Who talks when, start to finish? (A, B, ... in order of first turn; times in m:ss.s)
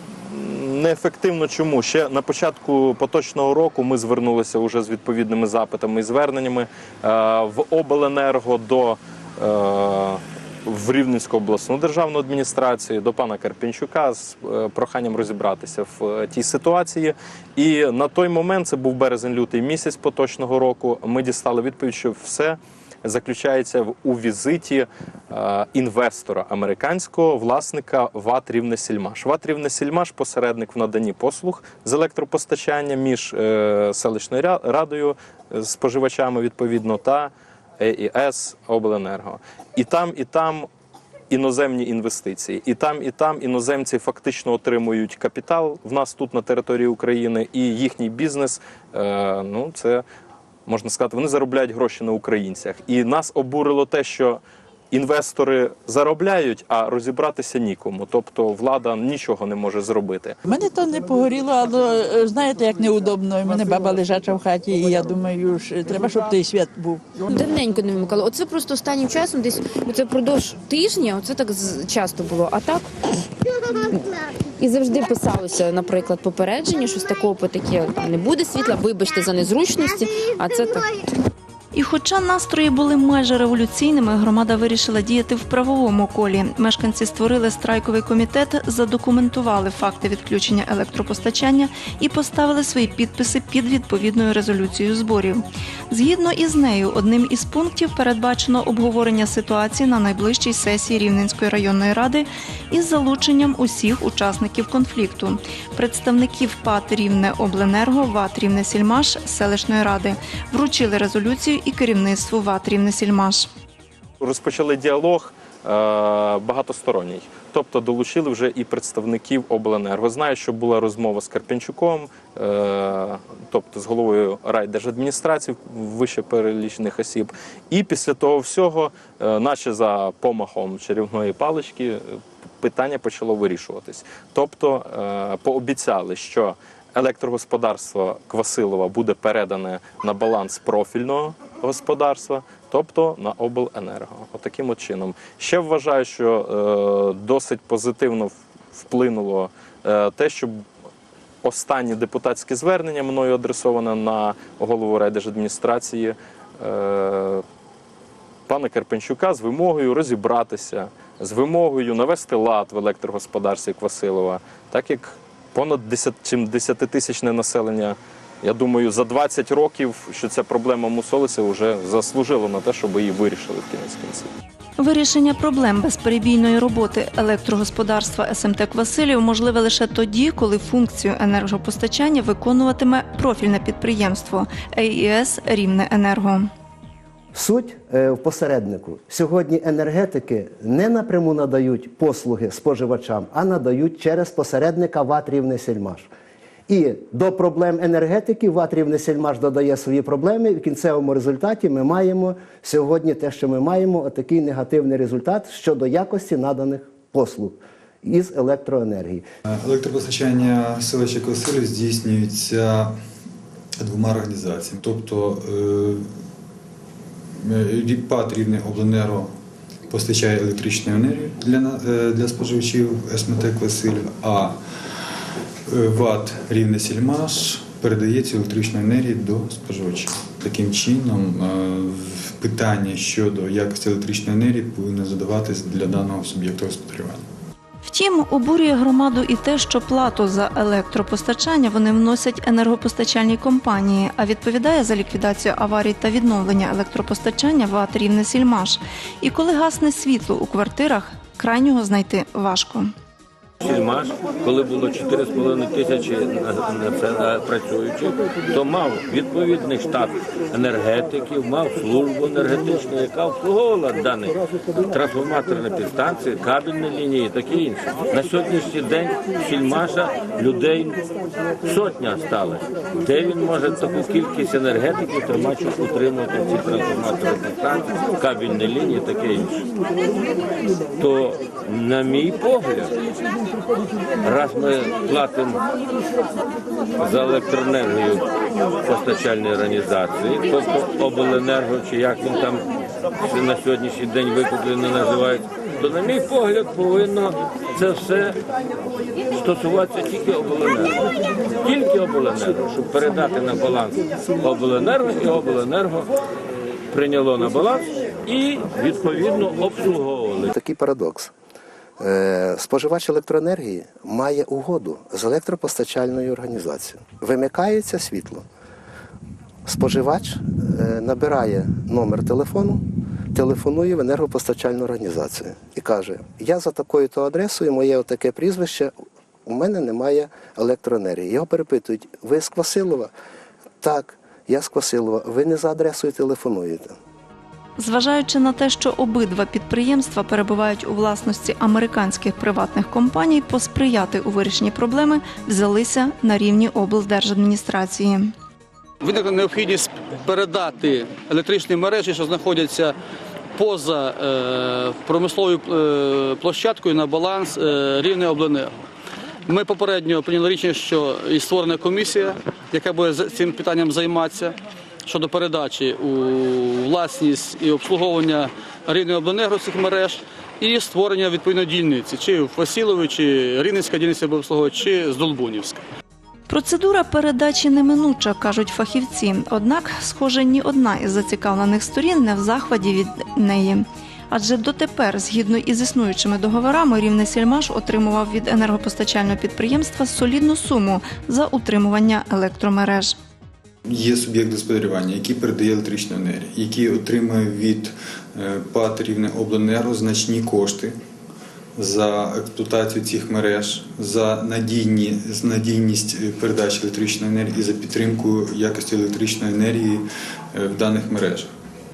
0:00.2-0:40.7 A
0:41.3-0:50.0 A
0:50.7-1:00.4 A
1:00.4-1:07.0 B
1:07.3-1:12.9 C
1:14.6-1:21.0 C
1:21.7-1:53.5 D
1:54.2-2:30.6 A
2:31.4-2:37.4 A
2:38.5-2:54.3 A
2:54.8-3:06.5 D
3:07.3-3:16.1 E
3:16.7-3:29.2 E
3:29.5-3:33.0 F
3:33.8-3:36.1 F
3:37.4-3:39.3 F
3:39.9-3:44.6 F
3:45.7-3:57.3 F
3:57.8-4:12.9 D
4:13.6-4:31.0 G
4:31.6-4:39.6 G
4:41.0-4:42.9 G
4:44.2-4:45.6 G
4:47.0-4:48.3 G
4:48.8-4:52.6 G
4:53.2-4:58.4 G
4:59.3-5:01.0 G
5:01.6-5:06.1 G
5:06.9-5:10.5 G
5:10.5-5:11.3 E
5:12.0-5:18.5 E
5:19.7-5:22.8 E
5:23.3-5:28.9 E
5:29.5-5:33.1 E
5:33.8-5:37.0 E
5:37.8-5:48.3 D
5:49.0-5:53.0 H
5:53.6-5:58.7 H
5:59.5-6:15.8 H
6:16.5-6:33.2 D
6:33.8-6:41.0 F
6:41.8-6:51.5 F